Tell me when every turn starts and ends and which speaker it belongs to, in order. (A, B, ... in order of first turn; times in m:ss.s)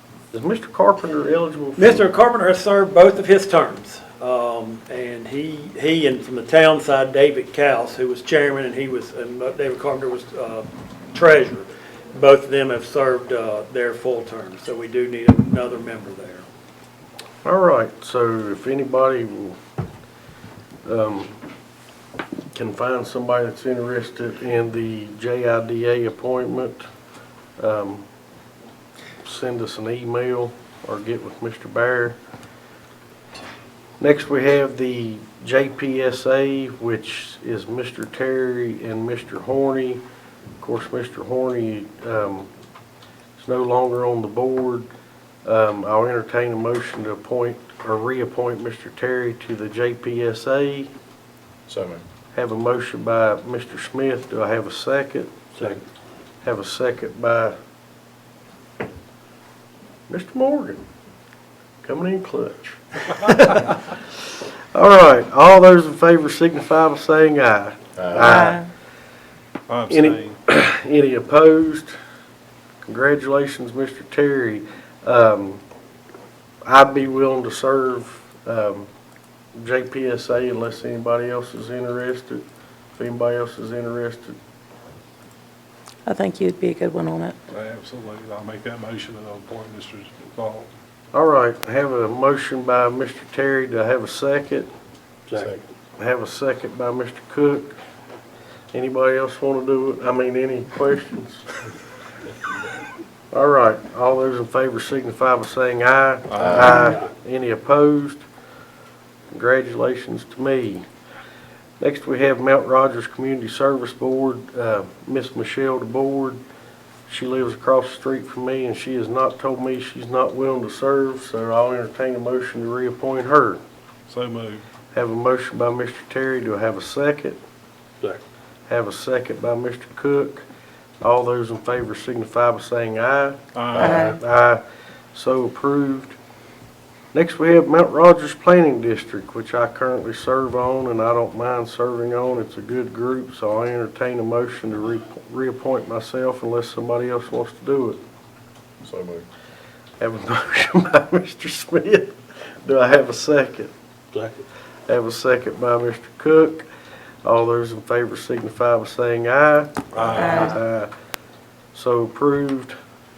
0:00.3-0:02.1 A
0:01.8-0:16.4 B
0:17.4-0:19.6 A
0:20.8-0:21.4 A
0:22.5-0:26.8 A
0:27.6-0:28.1 A
0:29.2-0:32.2 A
0:34.0-0:40.0 A
0:40.6-0:42.5 A
0:43.4-0:44.9 A
0:45.4-0:50.9 A
0:51.7-0:52.0 C
0:52.4-0:55.7 A
0:55.6-0:55.8 B
0:56.4-0:57.6 A
1:00.1-1:00.8 A
1:01.8-1:08.6 A
1:08.0-1:08.4 C
1:08.2-1:08.7 D
1:09.7-1:10.4 E
1:09.9-1:12.0 A
1:12.8-1:15.6 A
1:16.6-1:18.9 A
1:19.6-1:22.4 A
1:23.0-1:24.4 A
1:26.1-1:27.4 D
1:27.5-1:30.7 E
1:31.1-1:34.7 A
1:35.3-1:35.6 B
1:35.4-1:35.6 C
1:36.0-1:37.8 A
1:38.7-1:41.5 A
1:43.3-1:48.2 A
1:46.3-1:46.6 E
1:46.4-1:46.8 C
1:46.6-1:46.9 D
1:49.3-1:50.8 A
1:51.8-1:56.4 A
1:57.1-2:03.6 A
2:04.1-2:04.6 E
2:04.9-2:07.4 A
2:08.7-2:10.4 A
2:11.0-2:14.6 A
2:13.6-2:14.1 E
2:13.8-2:14.2 D
2:15.1-2:16.2 A
2:17.1-2:28.0 A
2:28.8-2:29.3 C
2:30.0-2:33.7 A
2:34.1-2:34.4 B
2:34.9-2:36.7 A
2:37.2-2:40.9 A
2:39.9-2:40.5 E
2:40.2-2:40.6 D
2:41.7-2:42.8 A